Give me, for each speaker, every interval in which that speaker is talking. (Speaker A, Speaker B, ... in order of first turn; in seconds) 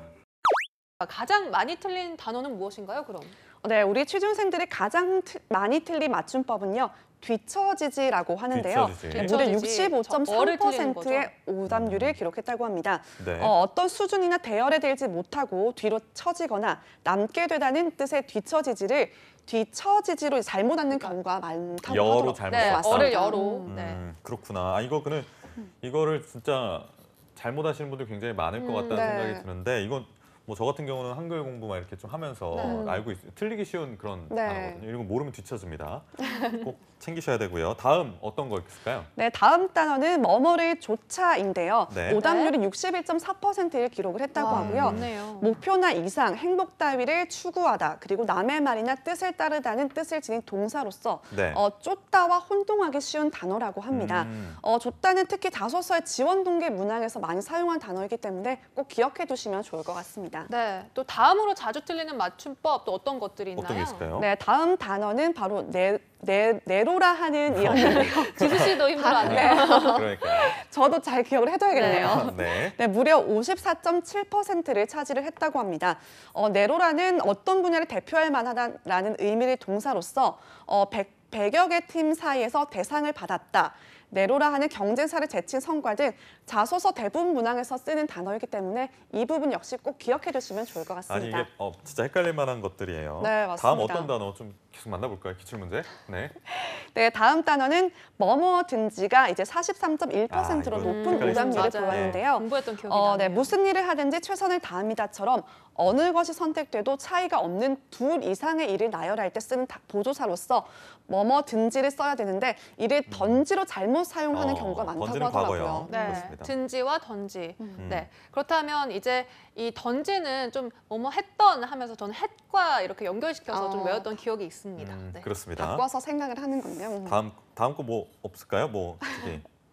Speaker A: 1.0-3.4, 9.1-11.3, 22.5-24.0, 28.6-29.1, 32.5-33.0, 42.1-42.5, 44.3-45.5, 60.5-64.0, 67.7-70.0, 71.7-72.2, 100.8-103.5, 115.9-125.3
Speaker B: 3.6-23.7, 28.9-29.4, 32.6-33.0, 34.3-34.8, 36.2-36.6, 39.1-60.5, 64.2-91.5, 93.2-94.1, 96.5-116.3, 117.6-117.8, 123.5-124.2, 125.5-127.2
Speaker C: 8.5-9.4, 11.7-12.2, 13.2-13.5, 21.8-39.1, 41.9-42.2, 44.5-45.1, 51.3-51.6, 53.9-54.6, 63.5-64.3, 67.5-70.6, 71.8-72.8, 91.1-96.3, 100.3-102.2, 113.1-113.4, 114.3-116.5, 117.8-118.1, 124.8-125.8, 127.0-129.4